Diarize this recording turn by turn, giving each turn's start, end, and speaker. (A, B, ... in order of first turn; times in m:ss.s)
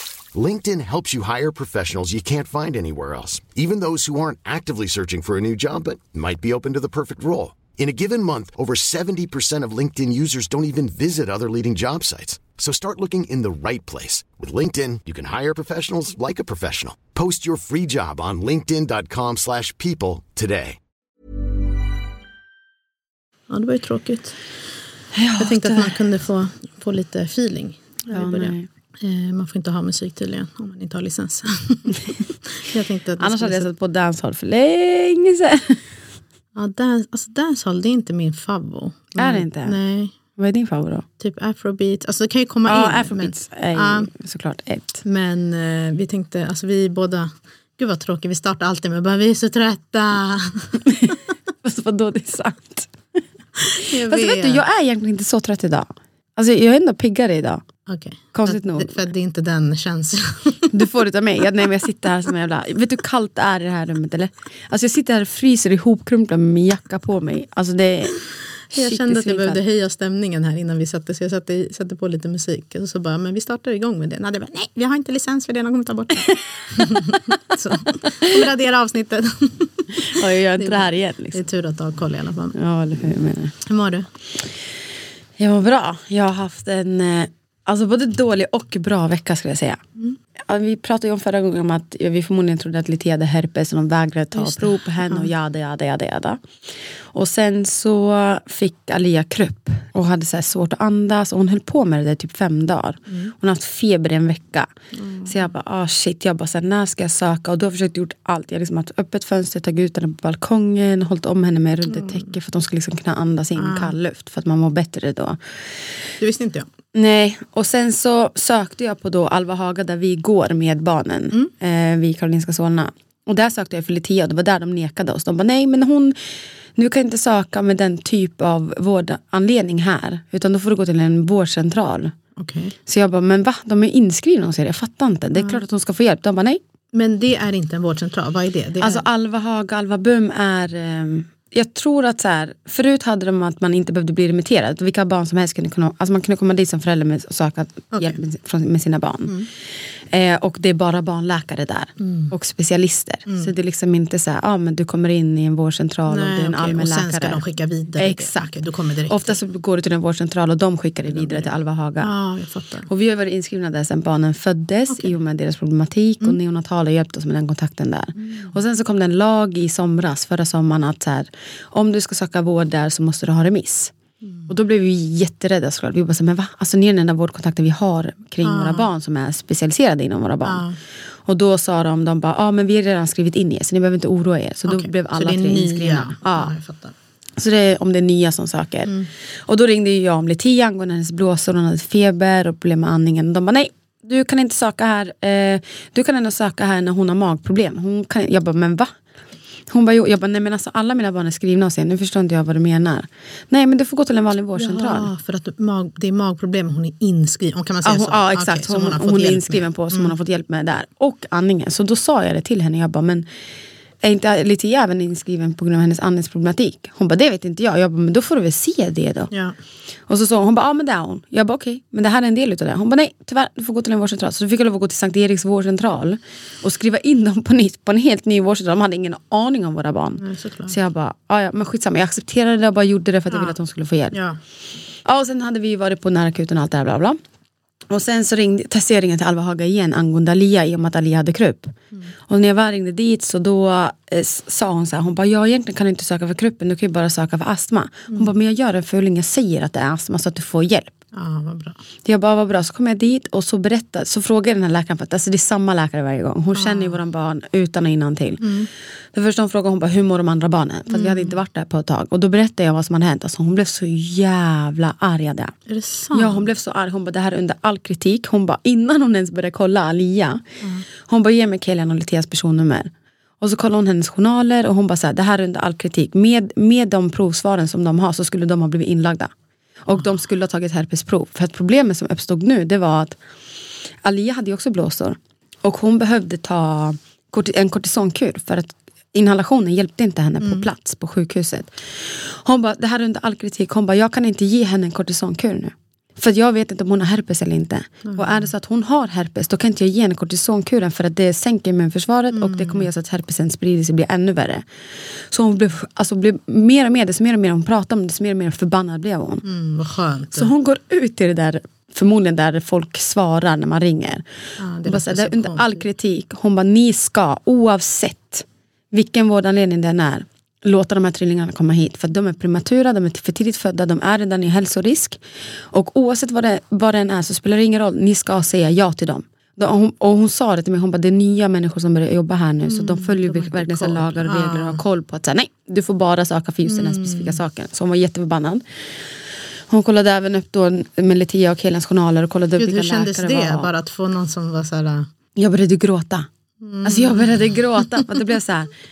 0:00.3-0:20.8 A
0:23.5-0:24.4 B
0:25.1-0:26.0 C
0:25.4-0:33.7 B
0:28.1-0:28.7 C
0:33.2-0:35.8 C
0:36.5-0:40.1 B
0:39.2-0:39.8 C
0:40.4-0:41.0 C
0:41.2-0:44.1 B
0:42.7-0:45.0 C
0:45.0-0:51.1 B
0:50.9-0:53.2 C
0:53.6-0:54.6 B
0:53.9-0:57.6 C
0:57.9-1:00.7 B
0:58.3-0:58.9 C
1:00.7-1:08.2 C
1:08.7-1:09.6 C
1:08.7-1:22.6 B
1:16.3-1:17.2 C
1:19.9-1:21.4 C
1:22.5-1:23.5 C
1:23.6-1:24.1 B
1:25.4-1:29.8 C
1:30.5-1:36.4 C
1:34.3-1:35.3 B
1:37.1-1:44.7 C
1:44.9-1:45.4 B
1:45.2-1:55.4 C
1:51.8-1:52.3 B
1:53.6-1:53.9 B
1:56.2-1:56.7 B
1:56.9-2:06.1 C
2:06.8-2:12.1 C
2:12.4-2:12.7 B
2:12.8-2:16.6 C
2:15.3-2:15.6 B
2:16.9-2:19.0 B
2:18.8-2:29.3 C
2:27.9-2:28.2 B
2:30.1-2:37.4 C
2:32.0-2:32.3 B
2:36.1-2:39.4 B
2:38.0-2:38.5 C
2:39.1-2:42.1 C
2:41.1-2:42.9 B
2:42.9-2:53.9 C
2:48.2-2:48.5 B
2:54.2-2:54.5 B
2:54.5-3:00.6 C
2:58.4-2:58.9 B
3:00.4-3:00.8 B
3:01.2-3:06.5 C
3:04.6-3:06.9 B
3:07.4-3:08.9 C
3:09.5-3:19.0 C
3:19.7-3:25.1 C
3:24.6-3:30.2 B
3:27.8-3:33.2 C
3:34.0-3:39.3 C
3:40.1-3:54.2 C
3:50.2-3:50.8 B
3:53.3-3:53.6 B
3:54.1-3:54.4 B
3:55.0-3:57.2 C
3:57.9-4:01.7 C
4:02.3-4:10.9 C
4:11.1-4:11.8 B
4:12.0-4:18.4 C
4:16.5-4:17.0 B
4:18.4-4:18.7 B
4:19.1-4:25.5 C
4:20.9-4:21.4 B
4:25.7-4:26.4 B
4:26.1-4:30.4 C
4:31.0-4:39.3 C
4:39.8-4:43.2 C
4:39.9-4:40.2 B
4:44.0-5:04.6 C
4:50.4-4:50.6 B
4:58.0-4:58.5 B
5:02.3-5:02.9 B
5:05.3-5:09.4 C
5:09.4-5:10.5 B
5:10.3-5:14.2 C
5:14.6-5:15.8 B
5:14.8-5:25.2 C
5:25.7-5:38.6 C
5:32.6-5:34.8 B
5:36.7-5:37.4 B
5:39.7-5:43.7 C
5:42.6-5:45.1 B
5:45.4-5:46.3 C
5:46.6-5:48.0 B
5:46.8-5:48.7 C